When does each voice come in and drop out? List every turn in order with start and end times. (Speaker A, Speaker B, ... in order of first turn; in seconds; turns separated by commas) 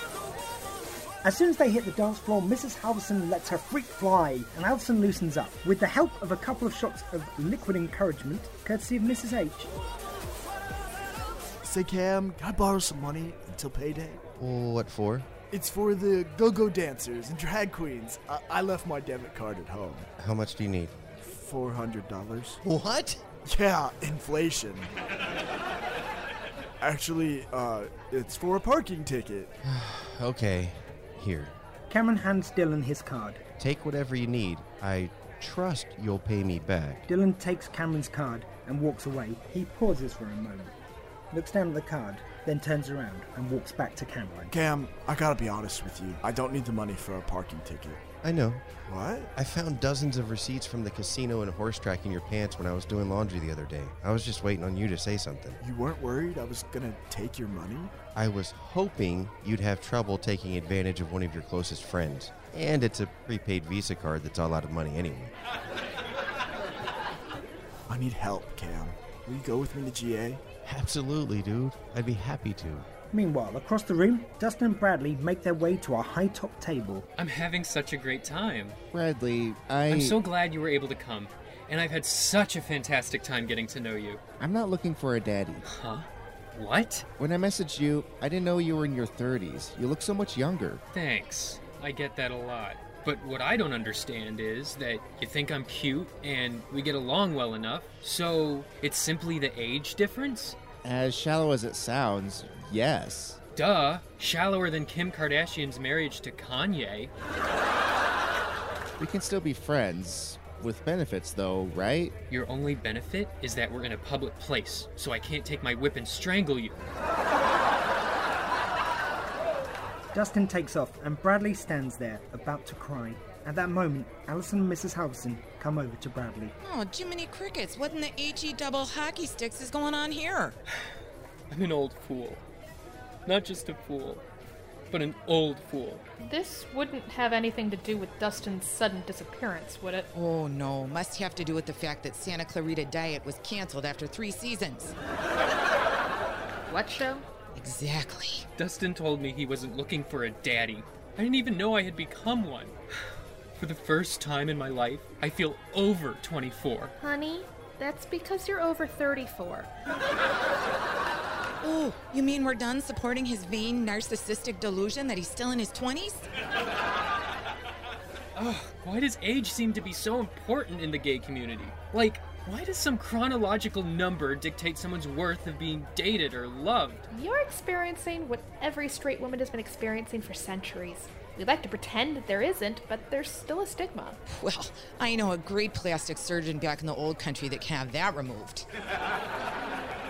Speaker A: 1.2-9.7, Speaker B: 11.6-14.2, Speaker C: 14.4-15.3, Speaker B: 15.5-20.1, Speaker C: 20.2-21.0, Speaker B: 21.2-22.6, Speaker C: 22.6-23.2, Speaker B: 23.4-24.9, Speaker B: 26.8-29.5, Speaker C: 29.6-31.5, Speaker A: 31.9-33.4, Speaker C: 33.6-37.0, Speaker A: 37.1-40.8, Speaker A: 41.3-44.5, Speaker B: 44.5-48.0, Speaker C: 48.2-48.7, Speaker B: 48.8-49.3, Speaker C: 49.3-55.6, Speaker B: 55.6-57.9, Speaker C: 58.1-65.3, Speaker B: 67.9-70.4, Speaker C: 70.6-72.9, Speaker A: 73.1-77.0, Speaker D: 77.2-78.8, Speaker E: 78.9-80.2, Speaker D: 79.9-84.2, Speaker E: 84.4-85.6, Speaker D: 85.6-87.1, Speaker E: 87.2-90.8, Speaker D: 90.9-100.6, Speaker E: 100.8-103.4, Speaker D: 103.5-107.1, Speaker E: 109.0-112.1, Speaker D: 112.3-116.8, Speaker A: 120.1-126.5, Speaker F: 126.6-130.6, Speaker D: 131.5-132.4, Speaker D: 133.2-134.2, Speaker D: 134.9-136.0, Speaker G: 136.2-140.1, Speaker F: 140.1-144.9, Speaker G: 146.7-147.2, Speaker F: 147.5-148.5, Speaker D: 148.6-152.8, Speaker D: 153.6-156.9, Speaker G: 157.0-159.7, Speaker F: 161.6-166.3, Speaker D: 168.3-177.0, Speaker G: 177.1-184.2, Speaker F: 184.3-188.7